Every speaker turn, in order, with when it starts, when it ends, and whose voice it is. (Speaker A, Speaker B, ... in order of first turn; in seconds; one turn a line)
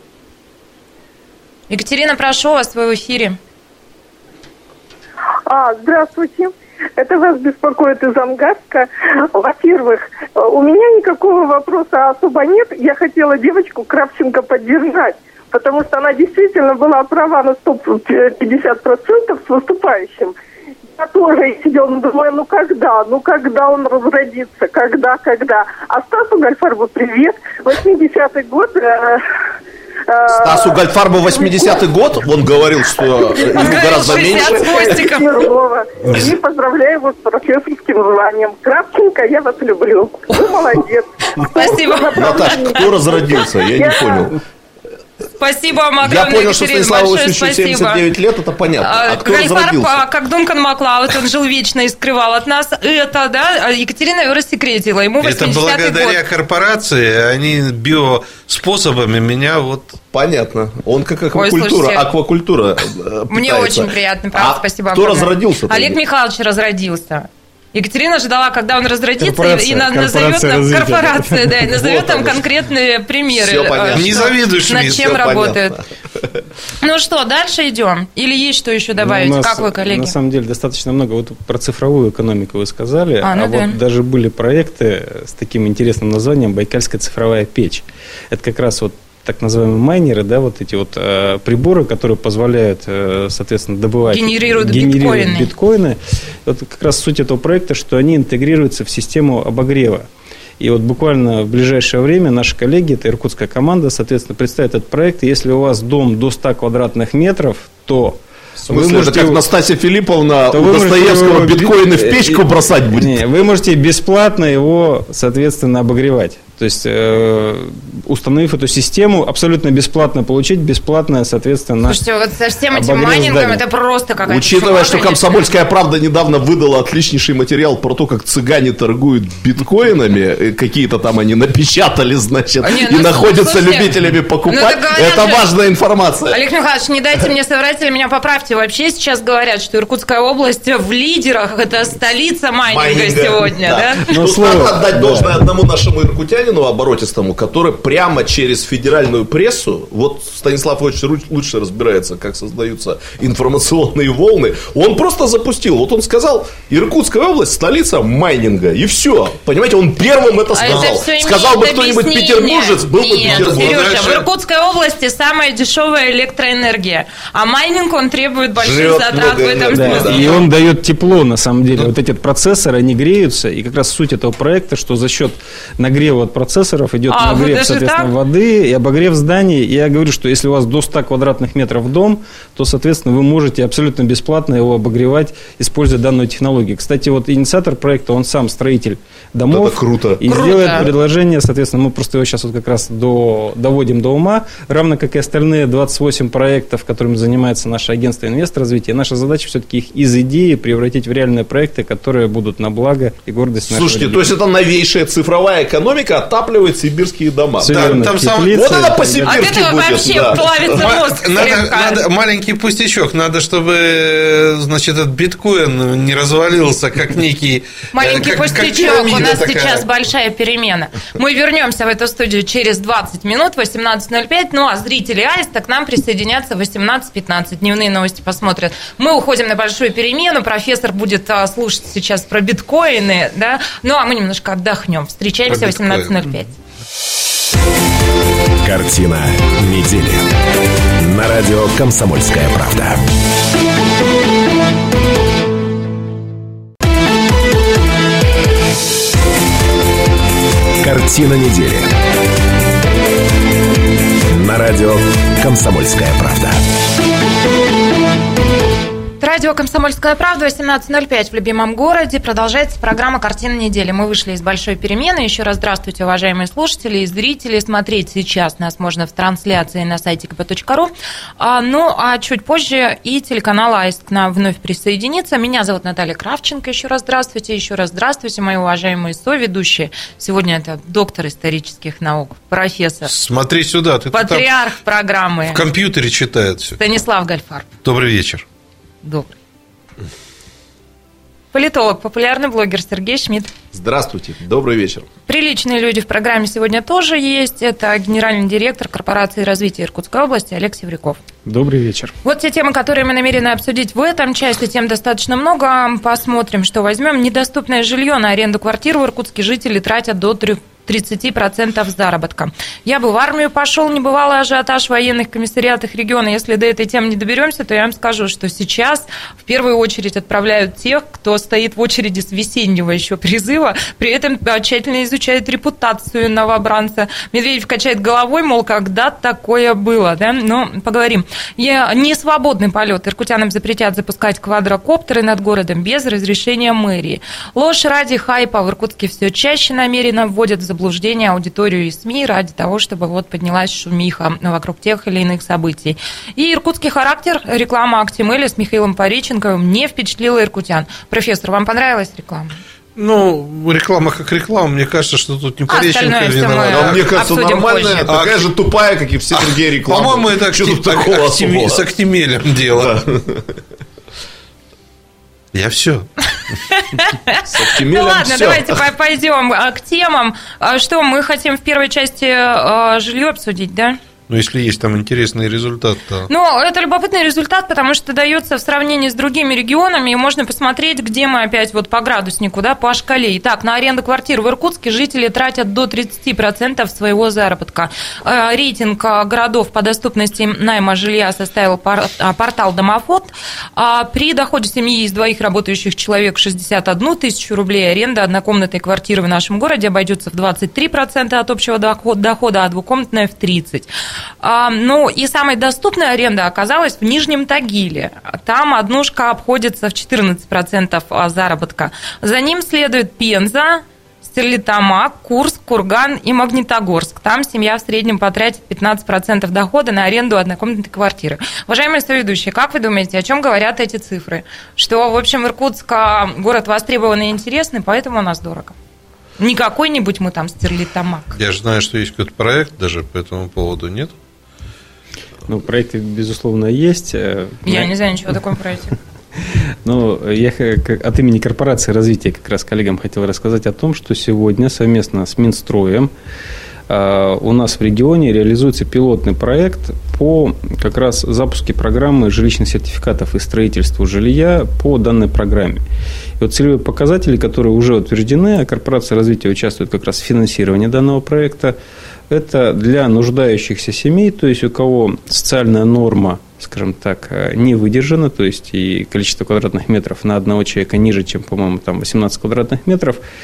Speaker A: 1.7-3.4
Speaker B: 5.5-20.3
Speaker B: 20.9-29.2
Speaker B: 30.1-31.8
Speaker C: 30.4-34.9
Speaker B: 33.0-44.3
Speaker A: 33.4-35.4
Speaker D: 36.1-36.3
Speaker A: 41.5-43.0
Speaker C: 42.1-44.4
Speaker A: 45.4-48.0
Speaker C: 46.0-50.0
Speaker A: 48.8-56.2
Speaker D: 55.2-60.0
Speaker C: 60.1-66.0
Speaker A: 61.3-62.1
Speaker A: 63.3-75.7
Speaker E: 69.2-71.7
Speaker C: 71.8-72.3
Speaker C: 73.3-76.2
Speaker D: 73.9-75.2
Speaker A: 76.8-80.1
Speaker E: 79.0-100.1
Speaker A: 83.2-83.8
Speaker A: 94.1-95.5
Speaker E: 100.6-109.4
Speaker C: 108.7-113.2
Speaker E: 110.5-122.0
Speaker A: 121.9-125.4
Speaker C: 122.7-123.6
Speaker C: 124.2-136.4
Speaker A: 132.6-133.9
Speaker A: 134.4-135.5
Speaker A: 136.3-144.1
Speaker C: 142.7-164.2
Speaker E: 144.1-145.4
Speaker A: 160.5-170.4
Speaker D: 160.6-160.9
Speaker D: 163.2-164.2
Speaker C: 168.6-170.4
Speaker E: 169.7-204.3
Speaker A: 177.1-178.1
Speaker C: 189.5-190.9
Speaker A: 190.2-190.8
Speaker C: 203.7-208.0
Speaker E: 207.6-209.3
Speaker D: 207.7-209.2
Speaker C: 208.5-210.9
Speaker A: 209.2-212.0
Speaker D: 210.7-219.8
Speaker A: 217.9-236.5
Speaker D: 235.5-236.2
Speaker F: 238.6-240.3
Speaker F: 241.0-243.0
Speaker F: 250.8-251.9
Speaker F: 254.3-256.6
Speaker A: 259.2-283.1
Speaker D: 283.0-284.5
Speaker A: 284.1-285.6
Speaker D: 285.5-286.8
Speaker A: 286.8-287.7
Speaker D: 287.8-288.4
Speaker A: 289.0-289.3
Speaker A: 291.5-293.5
Speaker C: 293.7-295.1
Speaker A: 295.3-301.2
Speaker E: 301.4-302.1
Speaker A: 302.2-352.5
Speaker D: 352.9-357.2
Speaker A: 355.7-358.1
Speaker C: 356.7-361.9
Speaker D: 358.0-358.5
Speaker D: 359.3-362.9
Speaker C: 362.7-363.5
Speaker D: 365.5-366.1
Speaker A: 366.8-374.0
Speaker C: 367.5-368.8
Speaker D: 374.3-376.3
Speaker A: 376.3-403.9
Speaker A: 404.4-428.7
Speaker A: 429.4-431.3
Speaker D: 431.3-434.1
Speaker E: 435.5-437.9
Speaker A: 437.6-438.9
Speaker E: 439.8-446.1
Speaker E: 446.9-455.8
Speaker E: 456.4-461.8
Speaker E: 462.3-473.2